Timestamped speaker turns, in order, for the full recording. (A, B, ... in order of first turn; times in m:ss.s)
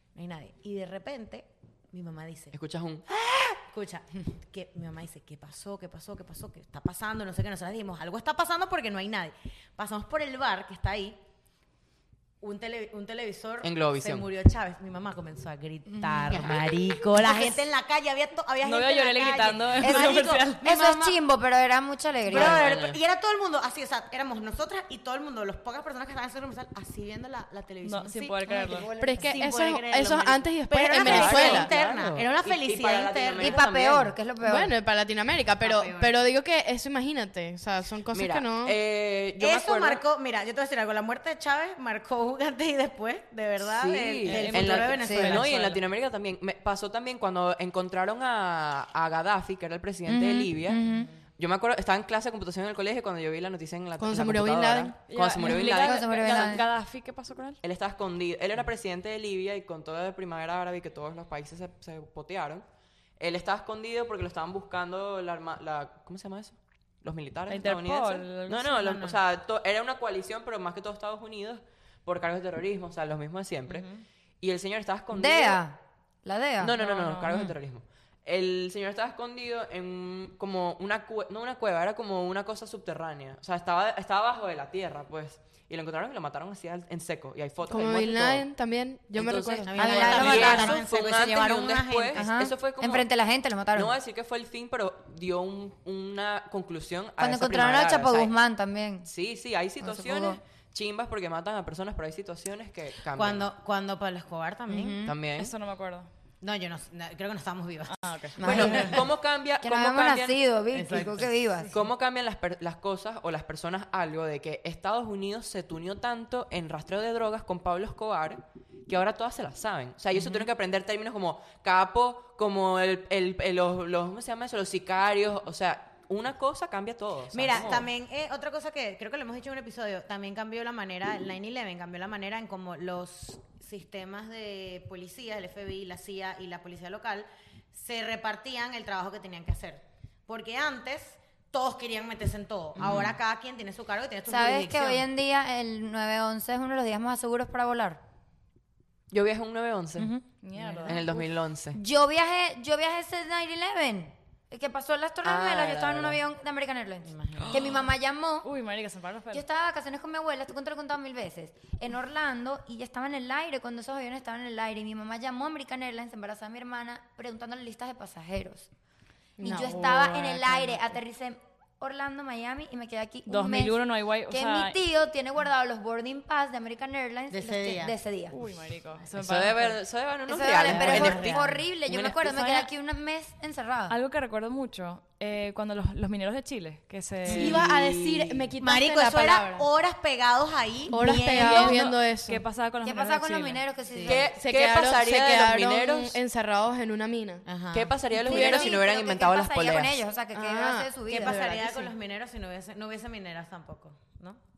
0:00.1-0:02.5 A
0:02.5-0:03.6 B
0:03.6-0:11.2 A
0:12.4-0:21.2 A
0:13.6-0:14.3 B
0:15.9-0:16.6 C
0:17.2-0:17.5 C
0:18.6-0:20.6 D
0:19.8-0:22.6 C
0:22.3-0:33.6 A
0:22.3-0:23.0 B
0:27.8-0:28.9 D
0:28.7-0:29.3 C
0:29.0-0:31.7 E
0:31.0-0:34.1 B
0:33.4-0:34.7 C
0:34.4-0:38.8 E
0:35.6-0:36.1 A
0:38.1-0:40.0 B
0:39.4-0:45.6 A
0:43.6-0:50.8 B
0:44.2-0:45.8 D
0:45.0-0:45.4 C
0:50.1-0:51.1 C
0:51.4-0:56.6 B
0:54.0-0:55.0 E
0:55.1-0:57.6 D
0:55.4-0:56.6 C
0:57.6-1:02.6 B
1:03.2-1:13.9 B
1:07.5-1:08.8 D
1:08.7-1:09.2 A
1:13.7-1:14.0 A
1:14.4-1:15.6 B
1:15.1-1:16.8 C
1:16.6-1:28.4 B
1:16.8-1:17.5 D
1:27.7-1:30.6 E
1:29.1-1:33.1 B
1:29.6-1:32.3 A
1:29.8-1:30.8 C
1:32.1-1:33.9 C
1:33.7-1:38.3 B
1:37.2-1:39.1 C
1:39.0-1:43.5 B
1:39.8-1:40.4 C
1:43.1-1:45.0 A
1:44.7-1:45.2 C
1:45.0-1:45.5 B
1:45.4-1:46.1 D
1:46.4-1:49.0 A
1:47.9-1:48.7 D
1:48.4-1:49.0 C
1:48.4-1:50.4 B
1:49.6-1:51.7 C
1:50.7-1:51.7 A
1:51.7-2:07.9 B
2:07.3-2:25.0 A
2:22.8-2:23.2 B
2:24.3-2:28.0 C
2:29.1-2:30.1 B
2:30.0-2:30.2 C
2:30.4-2:31.2 D
2:30.6-2:30.9 A
2:30.8-2:31.8 B
2:31.7-2:38.5 C
2:35.2-2:36.2 B
2:37.0-2:37.7 A
2:37.4-2:37.8 B
2:38.4-2:39.4 D
2:39.3-2:48.7 C
2:49.4-2:50.8 E
2:49.4-2:58.4 C
2:53.3-2:54.8 D
2:57.3-2:57.9 A
2:58.3-2:59.8 D
2:59.1-3:02.7 B
3:00.3-3:03.9 C
3:00.6-3:01.6 A
3:03.9-3:07.7 D
3:07.3-3:09.7 E
3:07.3-3:08.5 B
3:08.6-3:11.8 A
3:10.9-3:12.4 E
3:11.3-3:13.6 D
3:12.8-3:14.3 C
3:13.9-3:14.2 A
3:14.0-3:16.2 B
3:14.3-3:17.4 E
3:17.4-3:17.9 A
3:17.7-3:20.0 B
3:18.2-3:18.8 E
3:18.2-3:21.9 C
3:20.4-3:21.9 E
3:21.0-3:24.4 A